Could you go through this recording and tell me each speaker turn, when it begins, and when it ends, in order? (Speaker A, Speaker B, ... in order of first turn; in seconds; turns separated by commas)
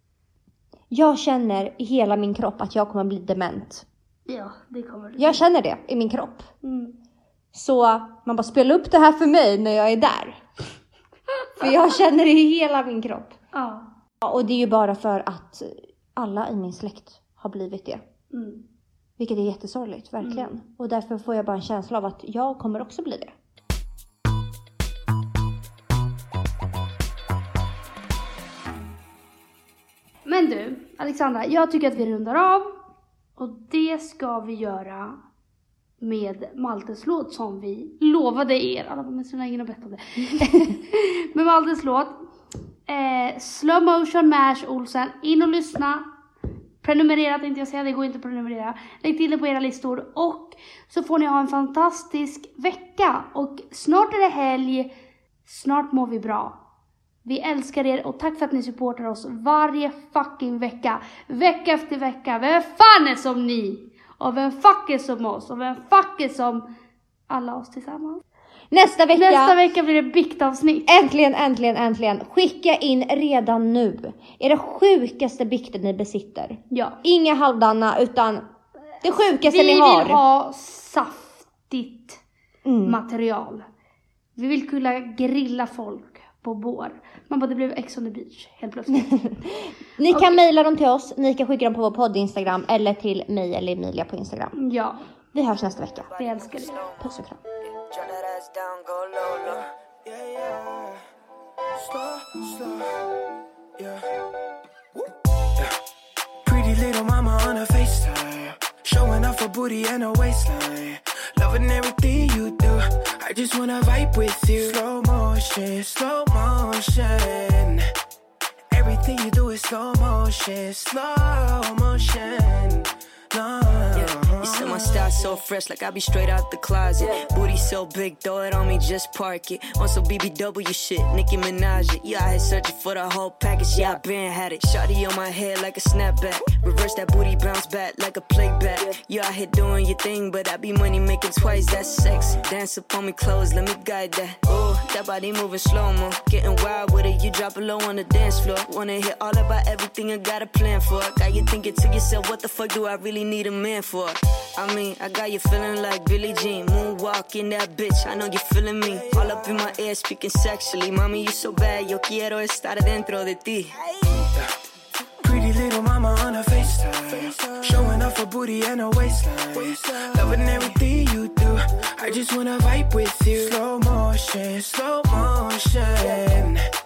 Speaker A: 0.9-3.8, Speaker B: 4.3-5.4, Speaker A: 5.2-6.5, Speaker B: 6.6-7.0, Speaker A: 7.5-10.4, Speaker A: 11.6-13.3, Speaker B: 13.5-13.9, Speaker A: 14.2-18.0, Speaker B: 18.3-18.6, Speaker A: 19.2-23.3, Speaker B: 20.2-20.5, Speaker B: 30.2-32.7, Speaker B: 33.4-35.2, Speaker B: 36.0-42.1, Speaker B: 42.9-46.0, Speaker B: 46.8-54.9, Speaker B: 55.4-56.6, Speaker B: 57.2-66.6, Speaker B: 67.3-68.2, Speaker A: 68.7-69.6, Speaker B: 69.1-70.9, Speaker A: 70.9-78.4, Speaker B: 76.7-77.0, Speaker A: 79.0-80.2, Speaker B: 79.5-82.2, Speaker A: 82.6-83.0, Speaker B: 82.8-83.6, Speaker B: 84.3-89.1, Speaker A: 88.9-94.5, Speaker B: 90.1-90.4, Speaker B: 94.5-95.0, Speaker A: 95.3-96.1, Speaker C: 96.0-99.7, Speaker B: 96.2-96.8, Speaker A: 97.0-97.4, Speaker D: 100.0-101.0, Speaker D: 101.8-103.1, Speaker D: 103.8-104.0, Speaker D: 106.4-117.8, Speaker D: 118.7-125.2, Speaker C: 123.9-164.2, Speaker D: 158.8-159.7, Speaker D: 165.2-176.6, Speaker C: 170.2-170.6